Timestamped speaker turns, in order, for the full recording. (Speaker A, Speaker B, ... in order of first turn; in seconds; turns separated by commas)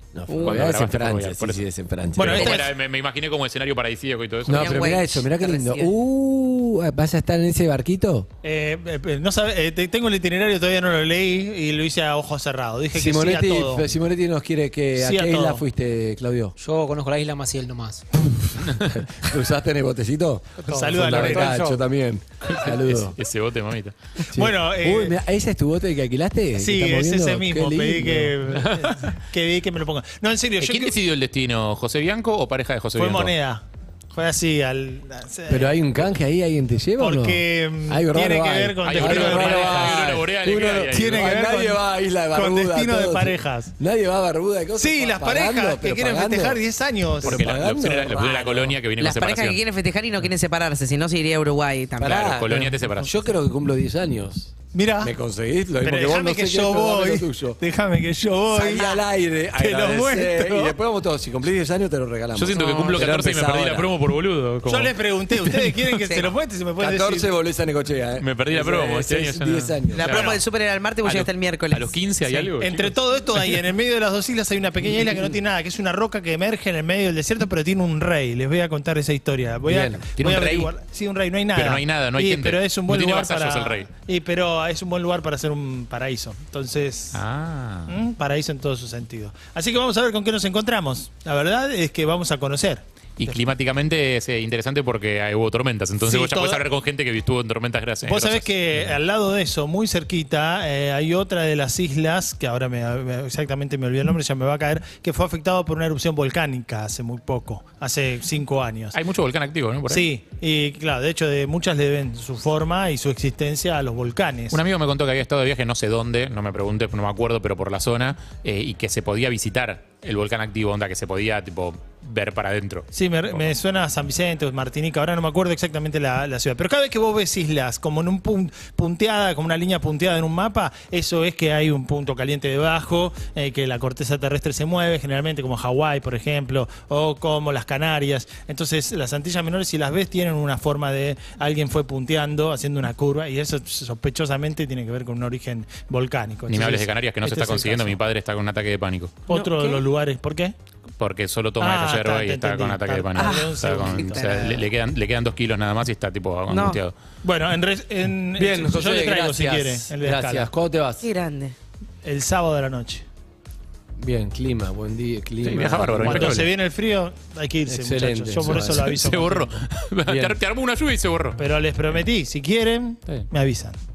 Speaker A: 0.1-2.6, Speaker B: 0.3-0.6, Speaker C: 0.4-1.6, Speaker D: 2.1-2.7, Speaker C: 2.3-4.8, Speaker B: 2.4-2.6, Speaker A: 4.5-8.3, Speaker B: 4.5-5.9, Speaker D: 8.4-13.9, Speaker A: 12.9-16.6, Speaker D: 14.9-15.6, Speaker E: 16.6-18.0, Speaker A: 18.3-23.2, Speaker C: 18.6-18.9, Speaker E: 20.7-21.8, Speaker D: 20.7-21.7, Speaker C: 22.4-24.0, Speaker D: 24.2-25.2, Speaker A: 24.3-28.4, Speaker D: 26.6-31.0, Speaker C: 30.6-33.3, Speaker D: 33.0-36.1, Speaker A: 35.5-46.6, Speaker D: 37.0-40.1, Speaker C: 38.9-41.3, Speaker D: 40.9-43.7, Speaker D: 44.8-47.6, Speaker A: 47.2-48.2, Speaker C: 47.2-49.6, Speaker B: 47.8-52.2, Speaker A: 52.0-57.6, Speaker C: 52.0-53.1, Speaker D: 54.7-55.1, Speaker D: 55.8-58.9, Speaker A: 58.5-63.9, Speaker B: 58.6-59.0, Speaker D: 59.5-60.8, Speaker C: 62.3-64.9, Speaker D: 64.7-67.3, Speaker B: 66.1-66.3, Speaker A: 66.8-70.0, Speaker C: 68.2-70.4, Speaker B: 69.9-72.5, Speaker D: 70.0-70.4, Speaker C: 71.0-73.5, Speaker D: 72.6-87.2, Speaker A: 79.7-80.1, Speaker C: 80.2-80.7, Speaker C: 81.5-83.9, Speaker C: 87.1-87.9, Speaker D: 87.9-93.4, Speaker C: 93.2-98.9, Speaker D: 96.0-96.6, Speaker D: 98.0-109.0, Speaker C: 108.9-110.1, Speaker D: 109.9-114.6, Speaker C: 114.5-123.5, Speaker D: 122.9-148.0, Speaker C: 146.5-149.1, Speaker B: 149.3-149.8, Speaker D: 149.3-150.5, Speaker C: 151.0-156.9, Speaker D: 151.6-154.4, Speaker B: 153.2-154.7, Speaker B: 156.5-156.8, Speaker D: 157.2-160.5, Speaker A: 158.4-161.1, Speaker B: 161.0-161.6, Speaker D: 162.0-163.1, Speaker A: 164.0-166.4, Speaker C: 165.4-166.5, Speaker D: 166.0-169.5, Speaker A: 167.7-168.9, Speaker C: 168.5-171.4, Speaker A: 170.1-170.4, Speaker D: 171.4-173.8